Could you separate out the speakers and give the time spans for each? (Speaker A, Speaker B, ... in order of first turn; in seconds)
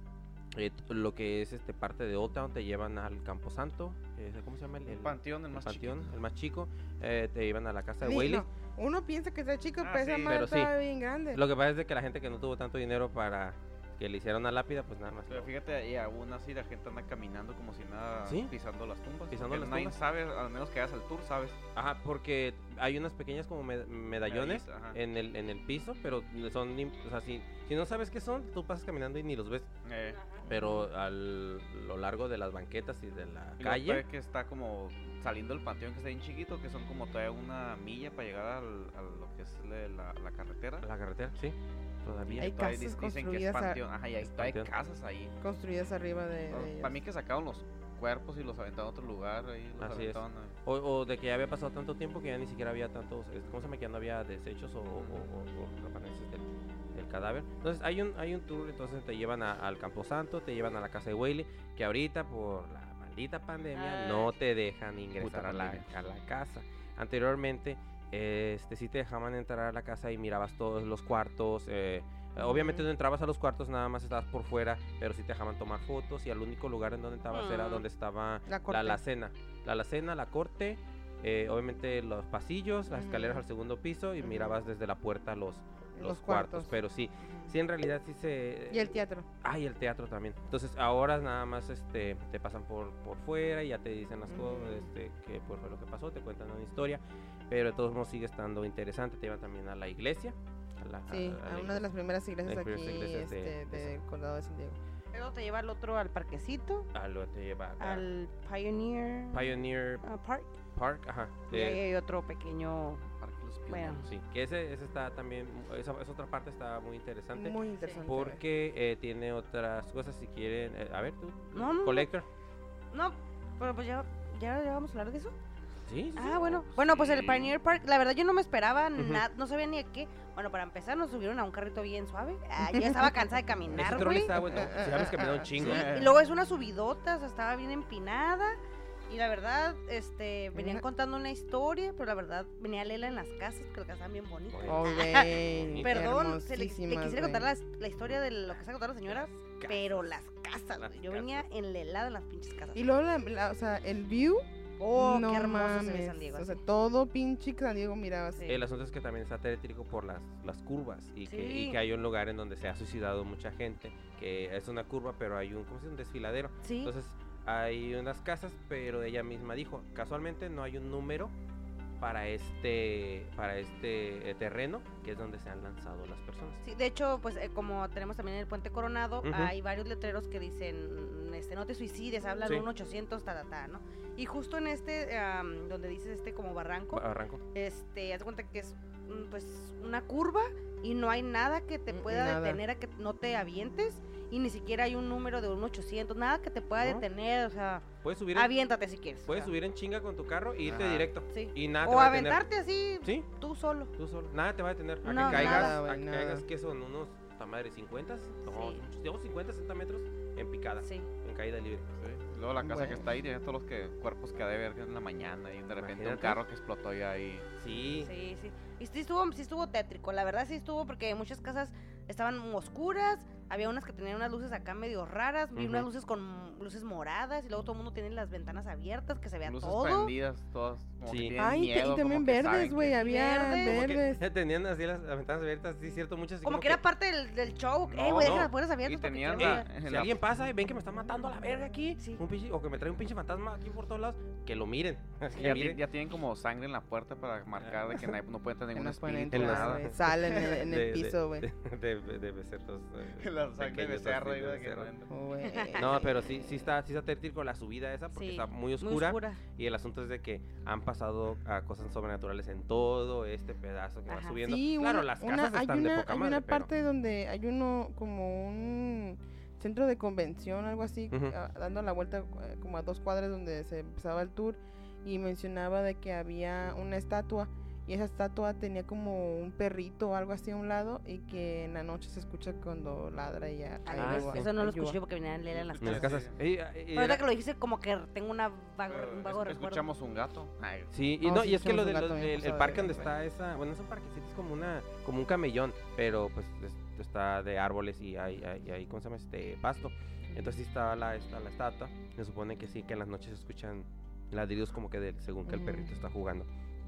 Speaker A: 0.5-8.5, 10.3-10.8, 11.3-15.5, 18.2-18.5, 19.3-20.0, 21.8-29.7, 30.5-34.0, 40.8-42.5, 44.2-44.7, 49.8-101.9, 102.4-104.0, 106.9-108.1, 109.3-110.0, 110.7-111.8, 114.0-122.3, 125.9-126.7, 129.0-129.2, 133.7-136.0, 144.5-146.1, 149.1-150.1, 150.8-151.5, 158.5-171.3, 172.0-176.6, 179.2-179.5, 186.9-187.4, 196.8-197.1, 198.0-198.5, 199.3-202.4, 203.0-203.3, 204.0-211.8, 215.8-216.4, 217.6-218.1, 225.6-225.9, 231.1-231.4, 233.6-236.8, 238.2-238.5, 239.4-245.8, 247.6-248.1, 249.3-254.9, 255.8-266.7, 284.0-284.5, 285.8-287.2, 290.9-306.5
Speaker B: 4.9-6.1, 9.8-10.4, 15.3-21.6, 24.3-25.0, 29.9-30.2, 33.6-40.9, 42.3-45.3, 46.5-50.5, 54.9-55.2, 65.2-65.9, 113.2-114.1, 126.8-127.5, 135.6-136.1, 200.7-201.1, 212.0-217.5, 229.4-233.0, 237.9-240.2, 245.3-249.9, 253.2-255.1, 285.5-286.3, 288.9-290.9
Speaker C: 8.0-11.4, 30.5-30.8, 42.4-43.8, 45.4-47.0, 72.4-72.9, 78.5-79.0, 82.9-83.5, 84.2-84.6, 86.0-87.5, 88.7-89.3, 94.3-94.9, 101.1-104.8, 117.3-118.4, 132.7-133.1, 134.0-135.5, 140.6-140.8, 144.7-147.5, 152.8-158.4, 191.9-192.6, 205.2-206.4, 212.6-213.1, 231.4-234.2, 248.7-251.5, 255.1-256.7, 264.4-285.0, 291.2-293.1, 300.3-300.6, 305.5-306.0
Speaker D: 30.1-30.5, 63.7-64.3, 77.3-77.8, 105.1-106.9, 107.8-110.6, 111.5-113.1, 113.7-114.1, 121.5-122.1, 122.9-125.4, 126.2-134.4, 135.6-152.8, 154.8-156.6, 158.3-158.6, 161.3-161.8, 166.6-166.9, 176.6-199.5, 201.3-203.9, 205.0-205.8, 208.5-208.8, 210.8-211.1, 218.0-230.1, 233.0-233.8, 236.4-239.7, 245.3-245.7, 255.4-256.0, 258.1-259.4, 264.1-264.4, 283.9-286.2, 286.9-289.9